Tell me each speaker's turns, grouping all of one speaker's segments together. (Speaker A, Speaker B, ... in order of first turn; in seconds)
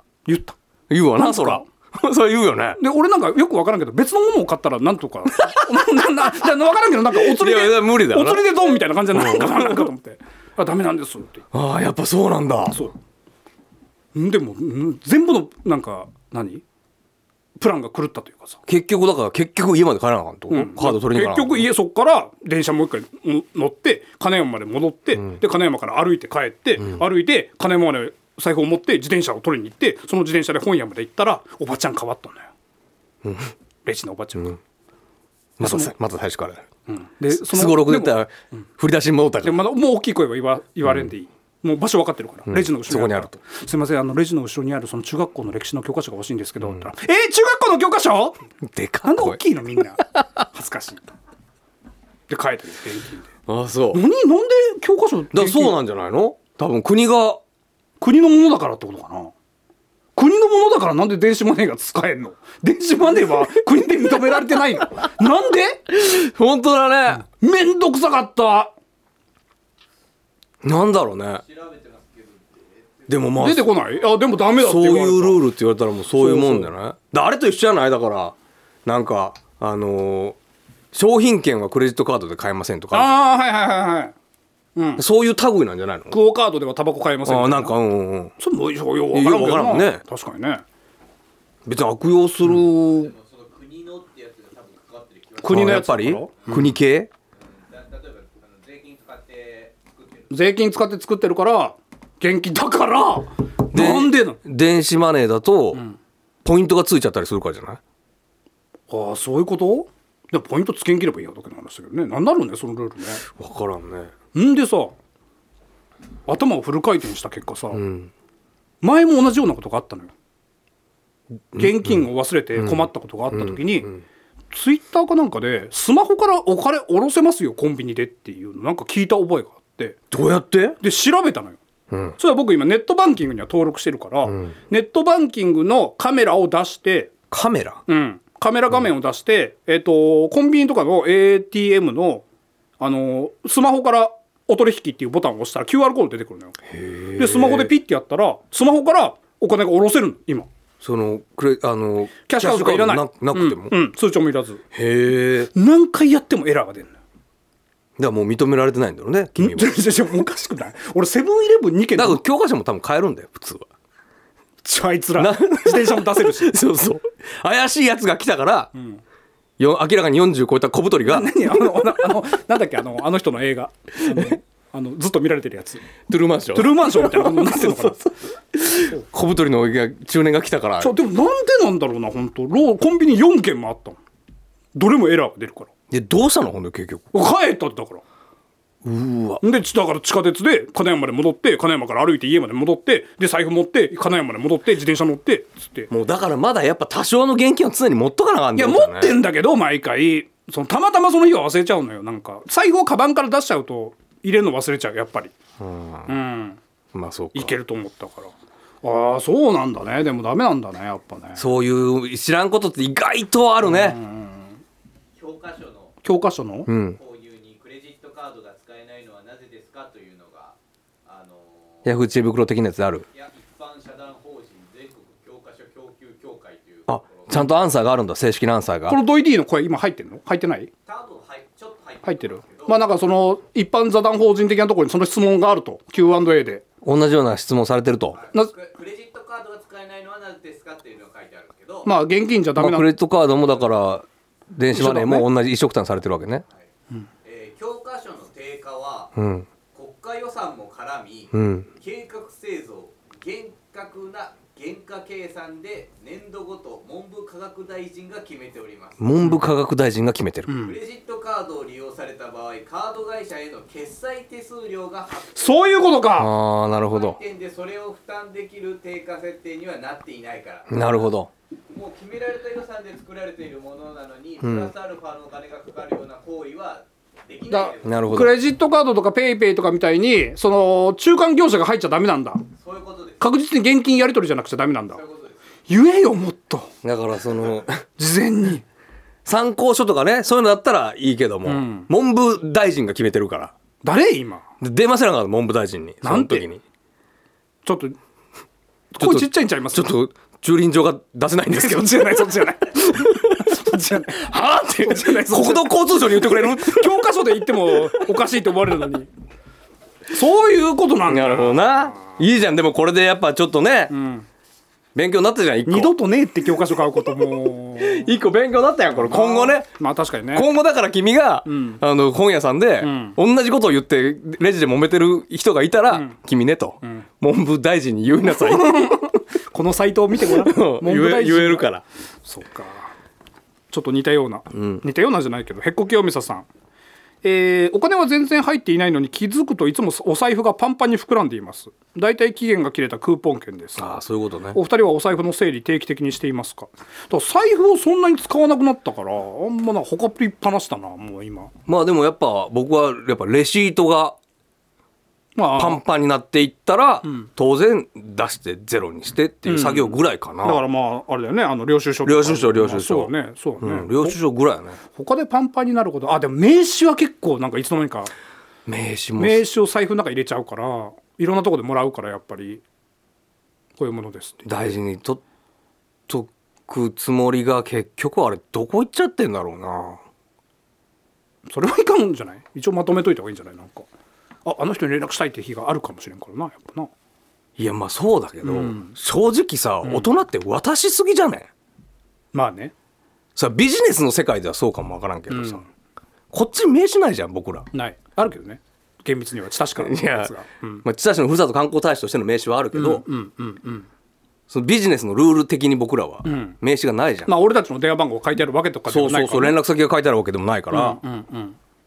Speaker A: 0.2-0.6, 1.2-1.6, 2.8-11.4, 12.7-12.9, 14.1-16.6, 17.6-18.6, 20.5-32.5, 33.8-34.6, 35.6-35.9, 36.9-38.2, 39.4-48.4, 49.0-51.1, 52.3-53.3, 53.9-55.8, 58.0-59.3, 60.1-65.9, 67.2-68.7, 73.4-75.4, 76.2-76.7, 82.9-84.1, 84.8-85.0, 86.1-87.7, 88.4-90.6, 95.4-96.7, 100.3-104.4, 108.9-113.2, 114.3-114.9, 116.3-117.8, 118.8-120.1, 121.5-123.9, 124.5-130.0, 130.8-131.6, 132.2-137.1, 137.9-142.2, 142.8-146.6, 147.2-150.5, 152.3-154.6, 155.5-156.9, 159.3-162.2, 164.6-166.6, 168.7-169.0, 171.0-175.8, 176.5-178.1, 180.8-184.0, 184.7-185.7, 187.1-188.0, 189.4-195.9, 198.6-205.3, 206.1-206.6, 207.3-211.4, 213.7-214.5, 216.0-216.7, 228.9-230.7, 232.0-236.6, 241.8-242.9, 244.7-245.3, 260.5-260.8, 265.4-266.3, 277.5-282.4, 283.2-285.0, 285.7-286.7, 288.0-288.6, 291.4-291.9, 293.8-294.4, 296.0-296.5, 297.6-298.0, 298.9-299.9, 301.5-309.1, 310.1-312.2, 313.9-314.3, 315.6-318.1, 318.9-320.5, 321.4-321.8, 322.8-323.2, 325.9-326.2, 328.3-331.7, 332.2-332.9, 333.7-336.5, 337.2-344.0, 344.5-351.5, 355.4-355.8, 359.4-364.2, 364.9-368.1, 369.2-372.6, 373.8-374.5, 381.4-383.9, 384.4-386.9, 388.4-389.0, 389.8-390.1, 392.3-392.7, 395.3-395.6, 397.7-400.8, 402.7-403.9, 406.2-406.6, 407.3-409.6, 410.7-411.6
Speaker B: 0.9-2.8, 7.1-9.9, 11.5-12.8, 18.6-21.6, 33.2-33.5, 35.6-36.7, 37.3-39.6, 42.5-43.4, 48.6-49.4, 53.5-54.0, 55.3-57.4, 65.9-67.2, 70.6-71.4, 73.1-73.7, 74.5-80.4, 80.9-83.1, 85.0-86.2, 87.2-88.3, 89.1-90.0, 91.7-93.1, 95.4-97.1, 103.7-105.8, 106.4-107.8, 113.3-114.1, 117.7-118.1, 121.5-122.0, 122.5-124.0, 130.1-130.8, 131.9-132.2, 134.3-134.5, 137.3-137.8, 146.7-147.7, 150.8-153.8, 154.7-155.5, 158.0-159.8, 161.9-163.7, 165.2-168.7, 169.6-171.6, 174.1-174.4, 176.1-181.0, 185.9-187.1, 188.8-189.4, 195.9-199.2, 205.6-206.1, 206.9-207.5, 211.3-214.0, 216.7-217.0, 221.8-223.0, 226.9-229.0, 236.8-238.2, 242.6-246.4, 249.2-249.5, 251.3-251.7, 259.0-260.5, 266.1-267.2, 270.7-271.3, 274.4-274.7, 277.8-278.3, 286.8-287.8, 289.2-293.5, 294.6-296.6, 299.0-302.4, 303.0-303.6, 304.1-308.2, 311.1-313.9, 314.9-315.9, 317.8-319.7, 320.3-328.9, 330.2-331.8, 334.5-334.8, 343.8-344.6, 351.6-354.2, 355.5-360.6, 362.0-364.8, 368.6-369.5, 374.4-375.2, 376.1-380.0, 387.6-391.5, 393.4-395.6, 396.3-397.7, 399.8-403.0, 404.5-407.3, 408.9-411.0
Speaker C: 71.3-73.3, 92.8-95.8, 97.4-100.3, 215.1-215.9, 216.9-222.1, 223.1-227.6, 230.8-232.9, 238.1-241.9, 247.2-249.1, 249.7-259.1, 260.6-266.0, 266.8-271.1, 271.7-278.2, 282.6-283.2, 284.9-285.4